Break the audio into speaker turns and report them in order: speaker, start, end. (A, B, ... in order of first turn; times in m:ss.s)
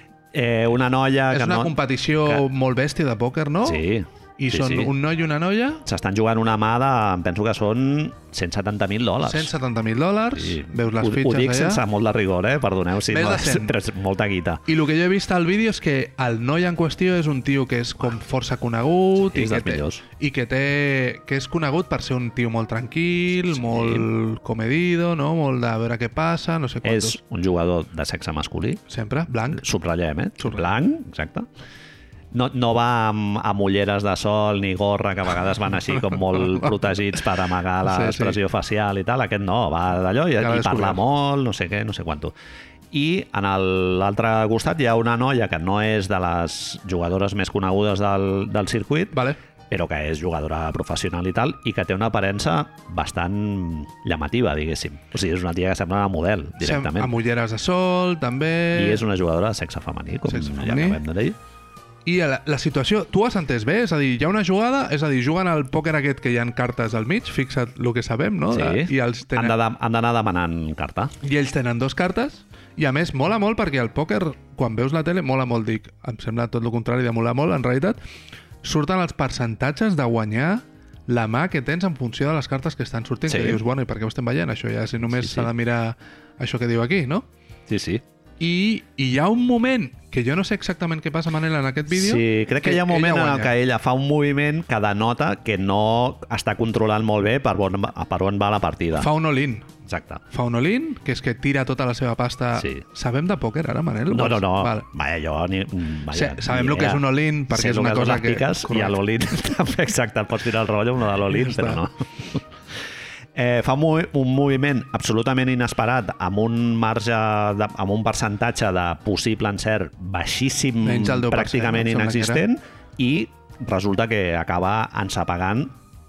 0:00.3-0:01.7 A
0:01.3-0:03.8 B
0:03.6-0:04.9 A
0:04.4-0:05.9 B
0:05.9-0:09.5 A
0:09.2-0:11.8 B
0:10.3-0:14.6 A
0:13.1-0:13.8 B
0:14.7-0:27.2 B
0:19.2-0:20.0 A
0:23.5-0:24.1 A
0:26.8-0:28.8 A
0:28.9-0:29.6 B
0:29.5-0:31.5 A
0:30.4-0:30.7 B
0:32.3-0:42.4 A
0:36.1-0:36.7 B
0:37.8-0:38.4 B
0:40.4-0:41.0 B
0:42.9-0:49.2 A
0:49.1-0:49.4 B
0:49.7-0:57.1 A
0:56.6-0:59.0 B
0:58.7-1:01.4 A
1:00.3-1:01.0 B
1:02.1-1:09.6 B
1:08.5-1:11.1 A
1:11.2-1:18.0 B
1:18.6-1:27.3 B
1:23.3-1:23.6 A
1:25.2-1:25.5 A
1:27.7-1:28.0 A
1:28.4-1:33.5 B
1:31.9-1:39.1 A
1:38.9-1:39.7 B
1:39.9-1:40.2 A
1:40.3-1:44.9 B
1:42.6-1:42.8 A
1:44.1-1:52.4 A
1:46.1-1:49.0 B
1:51.3-1:51.8 B
1:53.4-2:05.7 A
2:00.8-2:02.4 B